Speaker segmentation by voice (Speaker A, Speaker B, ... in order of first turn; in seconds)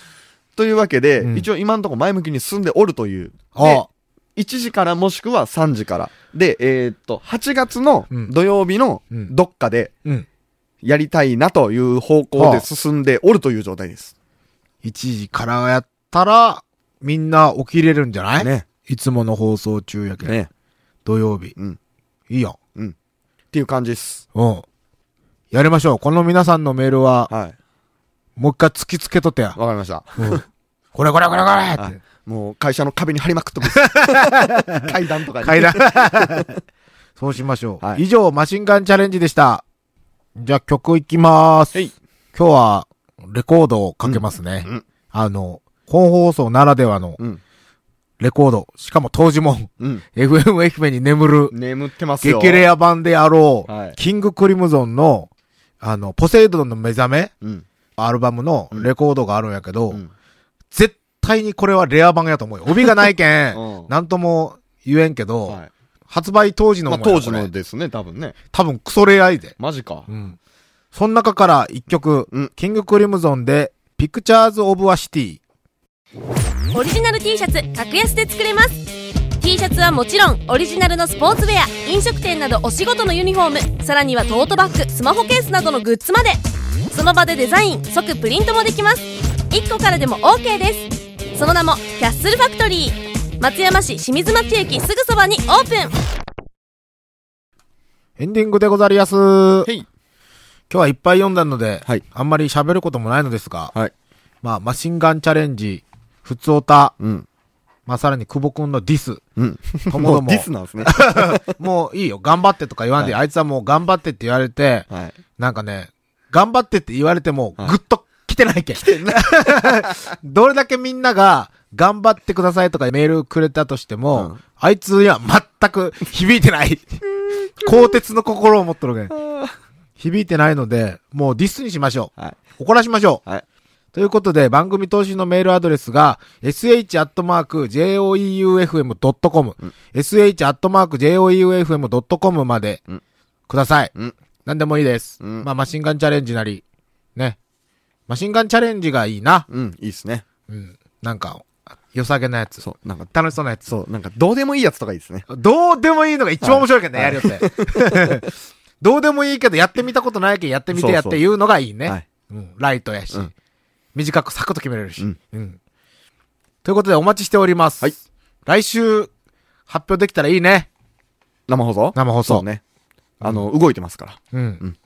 Speaker A: 0.6-9.9, 10.8-14.1, 18.4-18.7, 20.2-20.5, 23.5-24.2, 27.3-27.6, 29.6-30.4, 31.8-36.5, 44.0-44.8, 51.5-52.7, 53.7-54.0, 63.5-63.9, 66.9-68.4, 69.6-70.1, 107.0-107.3, 109.4-111.5, 114.9-115.2, 118.8-120.0, 127.6-127.9, 129.1-129.6, 145.2-145.5, 149.5-150.2, 152.6-153.1, 153.7-155.3, 156.4-158.3, 160.7-161.2, 171.5-172.6, 173.2-174.8
Speaker B: 1.2-1.5, 3.5-3.9, 12.4-12.7, 14.8-20.4, 21.1-21.6, 22.3-22.6, 24.4-24.6, 25.5-27.3, 28.4-29.6, 30.2-30.4, 30.9-32.0, 33.7-36.5, 37.2-39.6, 40.4-41.8, 42.3-47.2, 48.2-51.5, 52.2-55.3, 55.8-57.3, 58.0-60.0, 60.7-67.5, 68.5-69.6, 70.1-70.4, 70.9-75.4, 98.2-99.7, 100.7-103.7, 104.4-107.0, 107.9-109.2, 109.9-127.0, 127.6-129.2, 130.0-133.2, 133.9-142.8, 143.5-143.9, 144.4-146.6, 148.1-149.5, 150.5-153.7, 155.3-158.3, 158.8-163.3, 163.9-165.6, 166.6-169.1, 169.7-170.7, 171.9-172.5, 174.3-174.6
Speaker C: 76.7-78.8, 79.4-86.4, 86.9-96.0